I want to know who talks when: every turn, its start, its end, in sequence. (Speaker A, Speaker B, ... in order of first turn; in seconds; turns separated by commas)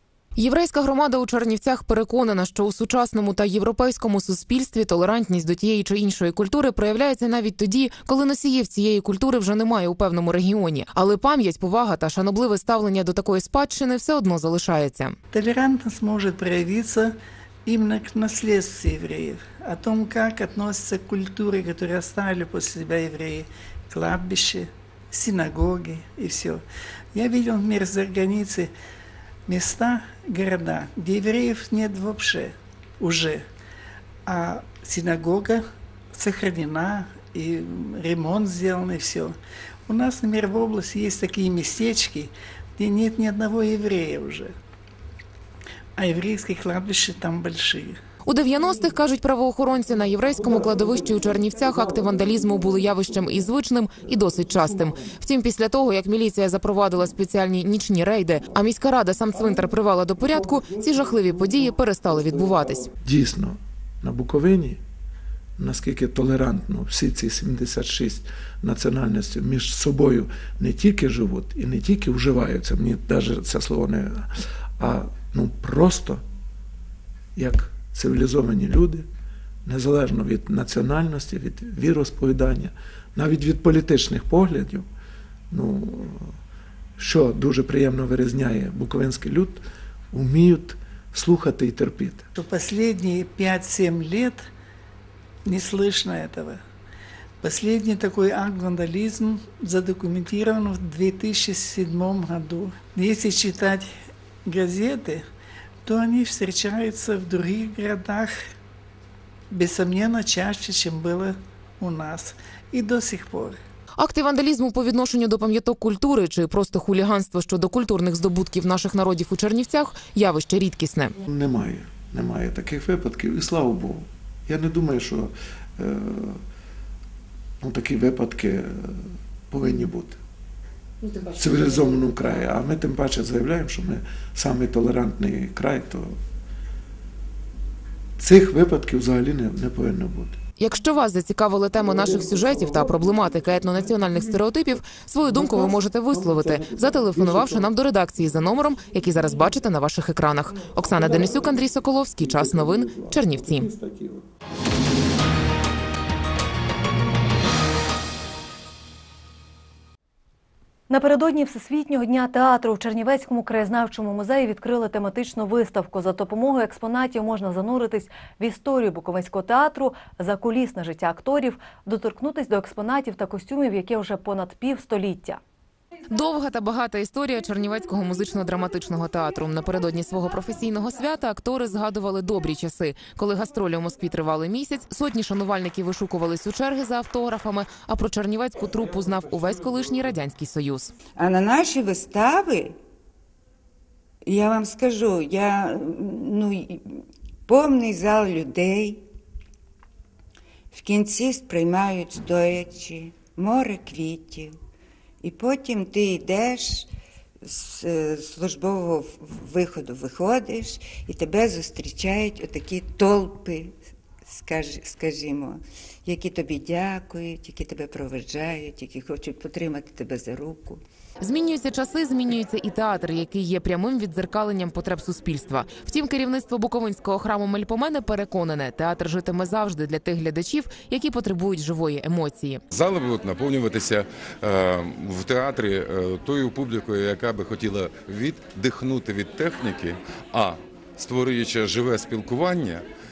Speaker A: 0.4-15.2, Speaker B: 15.3-17.1, Speaker B: 17.7-26.6, Speaker B: 27.1-28.7, Speaker B: 29.5-33.4, Speaker B: 34.3-35.6, Speaker B: 36.1-39.3, Speaker B: 39.9-44.5, Speaker B: 46.0-48.0, Speaker A: 48.3-62.9, Speaker C: 63.0-64.8, Speaker C: 65.6-74.3, Speaker C: 74.8-76.2, Speaker C: 77.4-79.1, Speaker C: 79.7-84.9, Speaker C: 85.5-86.3, Speaker C: 87.0-89.6, Speaker C: 90.1-92.3, Speaker B: 92.4-94.4, Speaker B: 95.5-96.6, Speaker B: 97.4-103.9, Speaker B: 104.5-105.2, Speaker B: 105.8-108.3, Speaker B: 109.5-113.6, Speaker A: 114.0-121.1, Speaker C: 121.3-126.4, Speaker C: 127.6-130.2, Speaker C: 131.1-136.2, Speaker C: 138.2-140.4, Speaker A: 140.6-153.7, Speaker C: 145.3-147.7, Speaker C: 152.3-154.2, Speaker D: 160.9-175.4, Speaker A: 176.1-190.9, Speaker E: 191.2-192.8, Speaker E: 194.3-196.8, Speaker E: 197.5-199.0, Speaker E: 200.7-204.5, Speaker E: 205.2-206.9, Speaker E: 207.4-213.7, Speaker E: 214.2-220.8, Speaker A: 221.2-232.6, Speaker F: 232.7-242.8